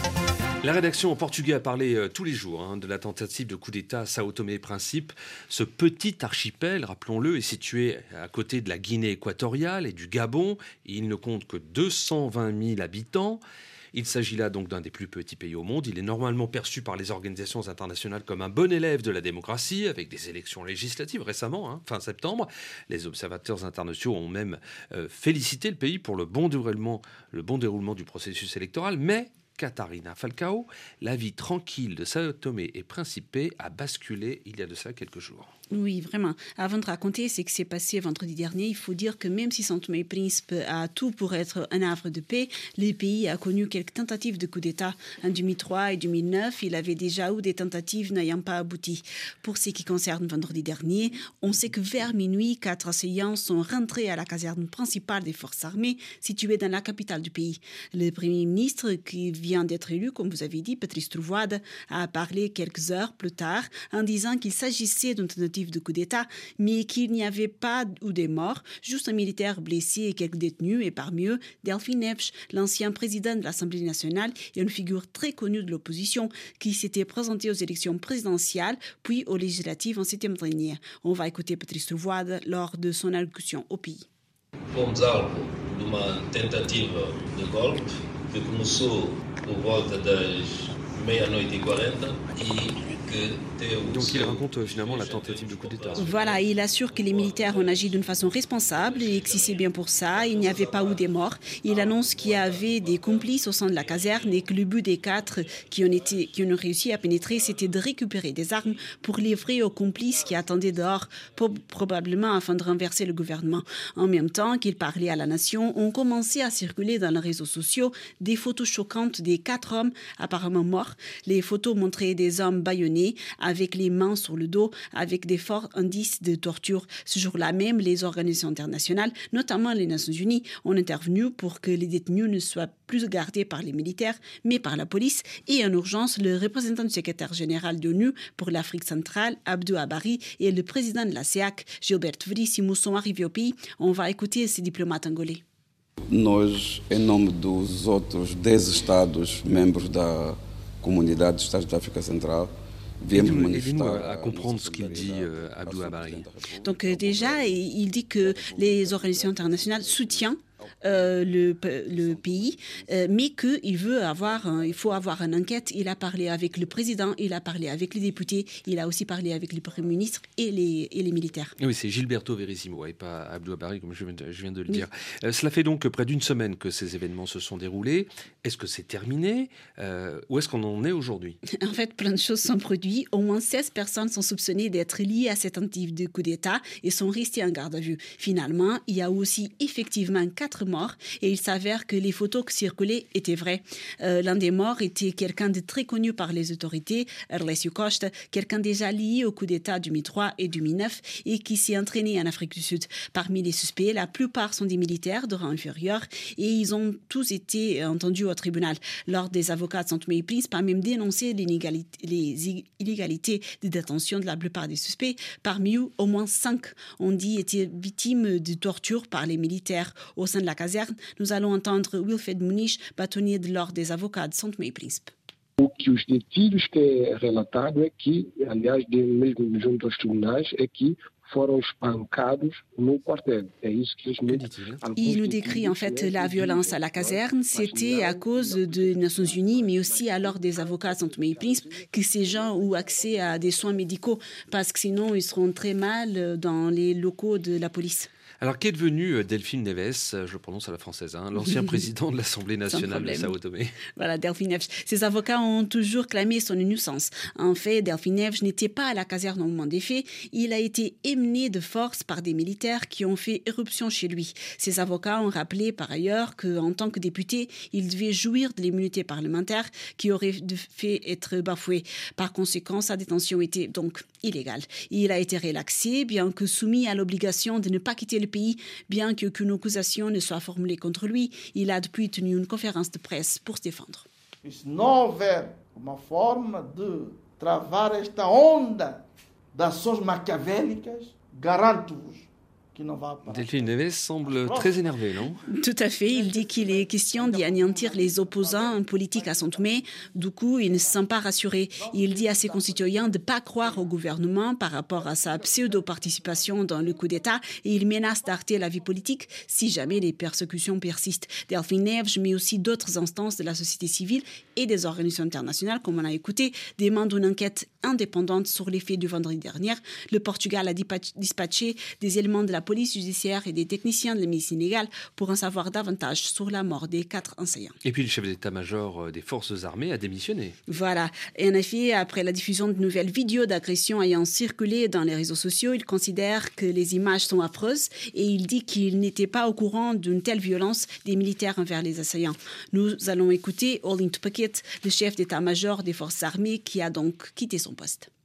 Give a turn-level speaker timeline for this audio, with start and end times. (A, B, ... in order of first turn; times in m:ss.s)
0:00.6-0:13.4 A
0:13.9-0:35.5 A
0:35.7-1:24.1 B
1:24.7-1:44.5 C
1:33.9-1:36.2 A
1:36.0-2:25.4 B
1:45.0-1:46.3 C
1:47.1-1:47.8 C
1:48.6-1:48.9 C
1:49.5-1:51.4 C
2:26.1-2:37.7 D
2:33.1-2:36.3 A
2:36.6-2:51.5 B
2:38.2-2:43.1 D
2:44.2-2:46.1 D
2:51.6-3:01.4 A
3:01.5-3:45.1 B
3:45.6-4:01.8 E
3:54.3-3:54.8 A
3:55.0-4:08.1 B
4:02.8-4:03.6 F
4:08.4-4:13.8 A
4:11.4-4:11.8 B
4:12.7-4:13.3 B
4:13.9-4:44.0 B
4:44.4-4:55.3 F
4:53.2-4:55.4 A
4:55.5-5:27.8 B
4:56.0-4:59.8 F
5:01.8-5:03.8 F
5:05.2-5:06.4 F
5:27.8-5:30.6 A
5:30.7-5:48.1 B